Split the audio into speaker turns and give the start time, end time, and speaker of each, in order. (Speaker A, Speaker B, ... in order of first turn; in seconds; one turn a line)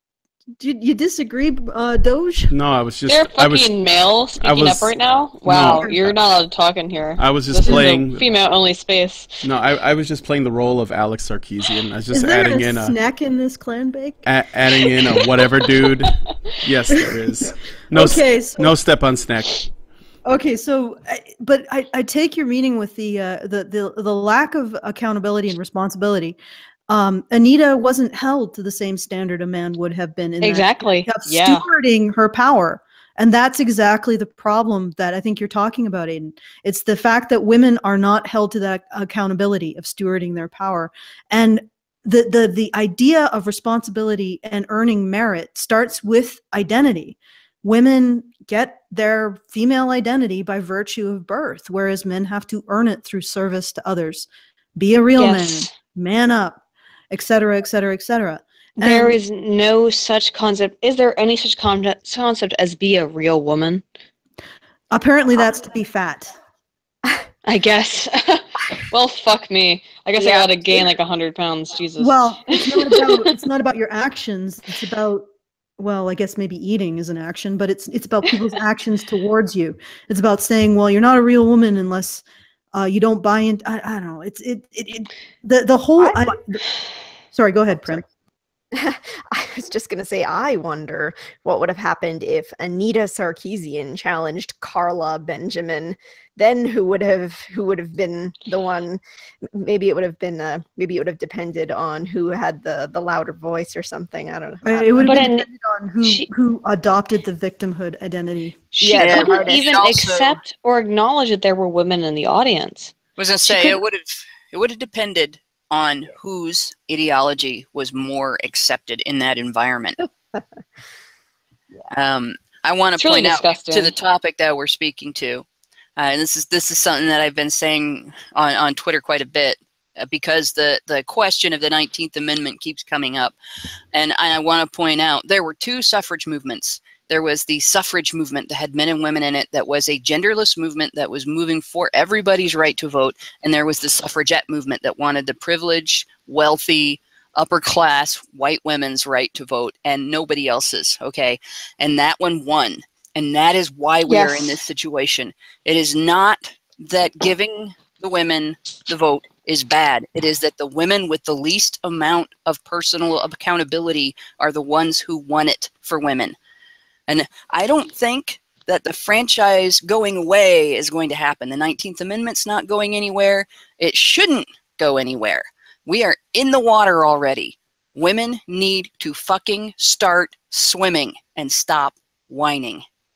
Speaker A: 0.6-2.5
Speaker B: 2.5-3.7
Speaker C: 3.1-9.4
Speaker B: 4.4-6.1
Speaker B: 7.2-8.3
Speaker B: 9.4-12.9
Speaker A: 12.1-14.2
Speaker B: 14.2-19.7
Speaker A: 17.9-18.7
Speaker A: 20.2-26.4
Speaker A: 26.9-59.2
Speaker C: 30.4-31.7
Speaker C: 55.2-55.7
Speaker C: 58.8-63.8
Speaker A: 64.9-66.3
Speaker C: 67.5-73.3
Speaker D: 70.2-70.9
Speaker A: 72.0-75.2
Speaker A: 75.8-82.2
Speaker A: 82.7-86.6
Speaker D: 86.0-86.3
Speaker A: 87.3-88.0
Speaker D: 88.7-99.0
Speaker D: 99.5-105.2
Speaker A: 104.6-108.7
Speaker C: 105.0-105.5
Speaker C: 106.0-106.3
Speaker C: 108.8-112.9
Speaker D: 108.8-109.7
Speaker E: 109.0-110.4
Speaker E: 113.2-120.0
Speaker C: 113.5-113.8
Speaker E: 121.9-125.5
Speaker C: 123.0-123.9
Speaker E: 126.0-133.3
Speaker E: 133.9-166.4
Speaker D: 154.1-154.6
Speaker E: 167.1-182.8